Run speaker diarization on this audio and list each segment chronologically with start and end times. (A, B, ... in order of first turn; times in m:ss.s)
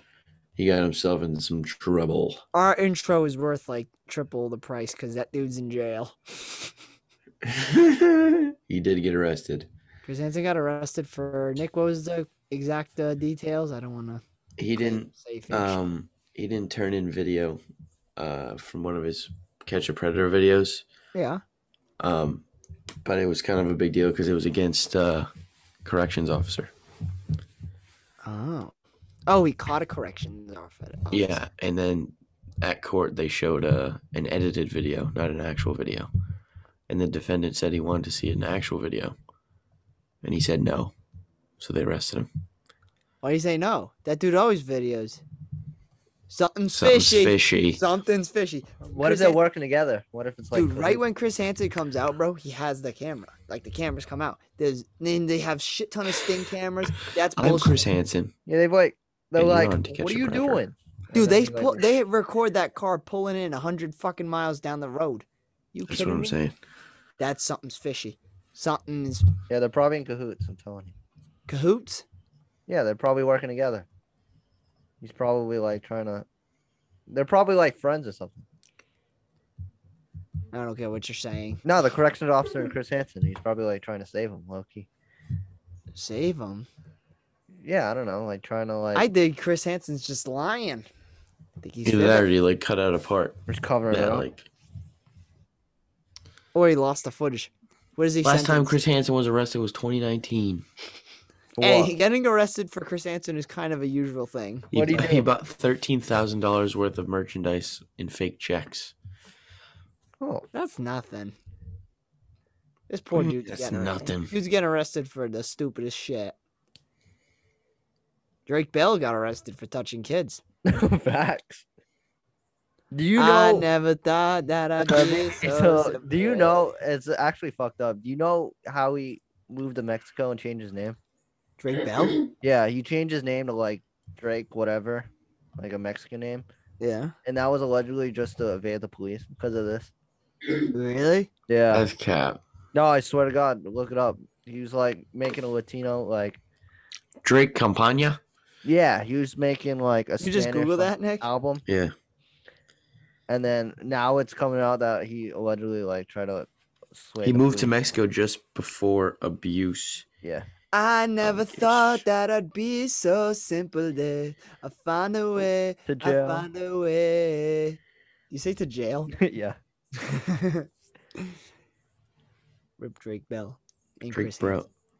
0:00.6-0:02.4 A
0:02.5-0:06.7 B
0:07.4-0:09.7 A
0:10.0-0:14.2 B
0:14.6-0:17.6 A
0:14.8-0:15.8 B
0:18.2-0:20.8 A
0:21.1-0:21.4 B
0:22.0-0:22.4 A
0:23.0-0:25.3 A
0:25.8-0:26.7 A
0:28.2-0:28.7 B
0:29.3-0:31.4 B
0:31.1-0:36.1 A
0:36.9-0:39.1 A
0:40.2-0:40.9 A
0:41.6-0:42.3 A
0:43.2-0:45.2 B
0:46.3-0:49.4 B
0:46.7-0:47.8 A
0:48.9-0:51.0 C
0:50.5-0:57.8 B
0:57.4-0:58.3 A
0:58.5-1:01.9 C
0:59.4-1:00.6 A
1:01.1-1:06.4 B
1:05.9-1:06.5 A
1:07.2-1:09.2 B
1:09.5-1:10.9 C
1:11.5-1:12.0 B
1:12.7-1:13.9 C
1:15.0-1:16.2 C
1:17.1-1:18.4 C
1:20.5-1:21.6 B
1:21.6-1:24.9 C
1:25.9-1:26.7 B
1:27.6-1:29.1 C
1:28.9-1:30.8 B
1:31.6-1:32.3 B
1:31.8-1:34.4 A
1:33.5-1:34.3 C
1:36.5-1:38.8 B
1:38.2-1:40.6 A
1:41.6-1:41.9 C
1:41.6-1:45.1 B
1:44.7-1:48.9 A
1:44.7-1:45.3 C
1:50.2-1:50.5 C
1:50.5-1:51.3 B
1:52.9-1:56.3 B
1:53.1-1:54.3 A
1:58.5-2:00.4 B
2:00.7-2:01.6 C
2:02.9-2:03.7 C
2:03.2-2:06.5 B
2:04.8-2:11.0 C
2:11.6-2:12.2 B
2:12.4-2:16.4 C
2:16.8-2:17.1 B
2:17.2-2:19.9 C
2:20.7-2:21.3 B
2:21.5-2:21.9 C
2:21.7-2:22.4 A
2:22.7-2:26.4 C
2:27.2-2:28.2 A
2:28.6-2:31.6 C
2:30.2-2:31.3 B
2:31.6-2:31.9 A
2:33.3-2:37.7 C
2:37.2-2:40.0 A
2:40.2-2:40.5 C
2:40.7-2:47.8 B
2:41.2-2:42.0 A
2:45.9-2:46.4 C
2:48.3-2:49.1 B
2:49.1-2:49.6 C
2:50.0-2:51.2 B
2:52.8-2:54.6 B
2:54.1-2:54.7 A